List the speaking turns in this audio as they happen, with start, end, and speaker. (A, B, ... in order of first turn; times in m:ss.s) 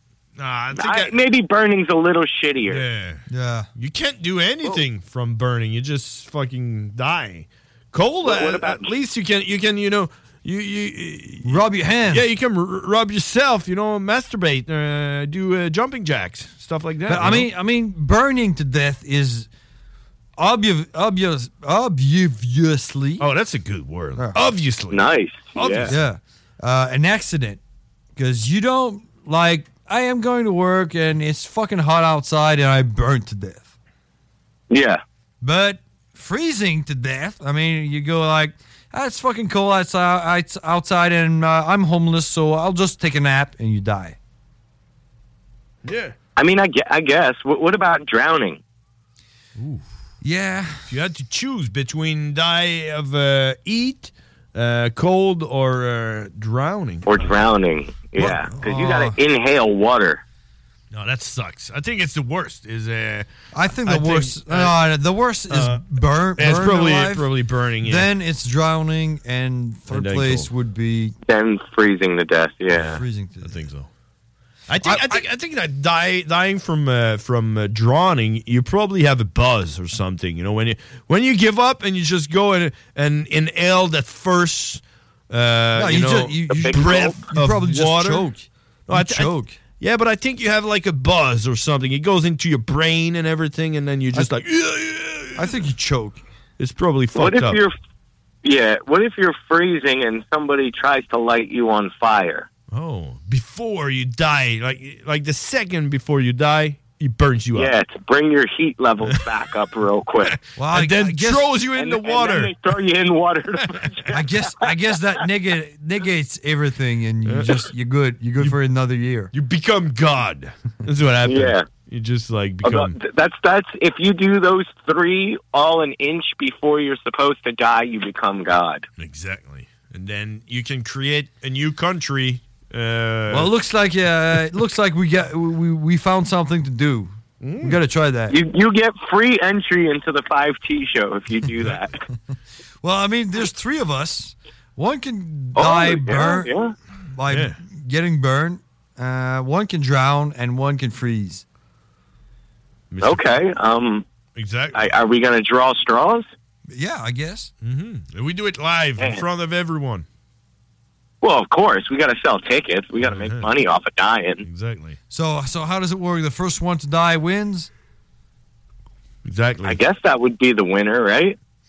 0:00.4-0:01.1 A
0:00.7-0:02.8 B
0:02.7-0:03.2 A
0:03.3-0:03.7 C
0:03.8-0:17.5 A
0:08.2-0:08.9 B
0:11.4-0:12.3 C
0:17.1-0:19.5 C
0:20.4-0:23.2 C
0:23.2-0:26.0 A
0:24.9-0:25.9 B
0:25.9-0:27.6 C
0:28.2-0:33.7 C
0:34.7-0:35.0 B
0:35.4-0:44.2 C
0:45.8-0:46.2 A
0:46.4-0:48.6 B
0:49.6-0:49.8 A
0:50.2-0:50.9 C
0:50.9-0:57.4 A
0:57.0-1:00.2 B
0:58.2-0:59.2 C
1:00.9-1:03.3 A
1:03.5-1:07.3 C
1:03.8-1:04.8 A
1:05.5-1:05.8 A
1:06.4-1:08.1 A
1:07.8-1:11.1 C
1:09.9-1:10.5 A
1:11.3-1:13.0 B
1:12.8-1:13.9 A
1:12.8-1:13.7 C
1:14.7-1:28.3 A
1:14.8-1:15.2 C
1:25.8-1:29.6 C
1:26.5-1:27.2 B
1:28.9-1:35.6 A
1:35.4-1:36.2 C
1:36.6-1:37.6 A
1:37.2-1:37.8 B
1:38.4-1:42.5 B
1:42.7-1:47.7 A
1:47.6-1:50.4 B
1:50.2-1:52.8 A
1:50.6-1:51.5 C
1:51.7-1:54.7 B
1:53.6-1:54.1 A
1:54.1-1:59.3 C
1:57.3-1:57.6 A
1:59.3-2:03.0 A
2:01.2-2:01.7 B
2:02.6-2:08.8 B
2:09.0-2:13.5 A
2:13.3-2:18.4 C
2:17.4-2:17.8 A
2:18.3-2:22.0 B
2:22.8-2:26.5 C
2:25.6-2:26.7 B
2:27.1-2:31.4 C
2:27.3-2:27.6 A
2:32.9-2:33.4 A
2:33.0-2:34.0 B
2:34.4-2:35.0 A
2:34.7-2:36.3 B
2:36.7-2:37.5 C
2:37.6-2:40.1 A
2:39.0-2:39.2 B
2:41.2-2:44.4 B
2:43.0-2:43.5 A
2:44.4-2:45.0 A
2:45.1-2:47.7 C
2:49.2-2:49.8 A
2:49.6-2:51.4 B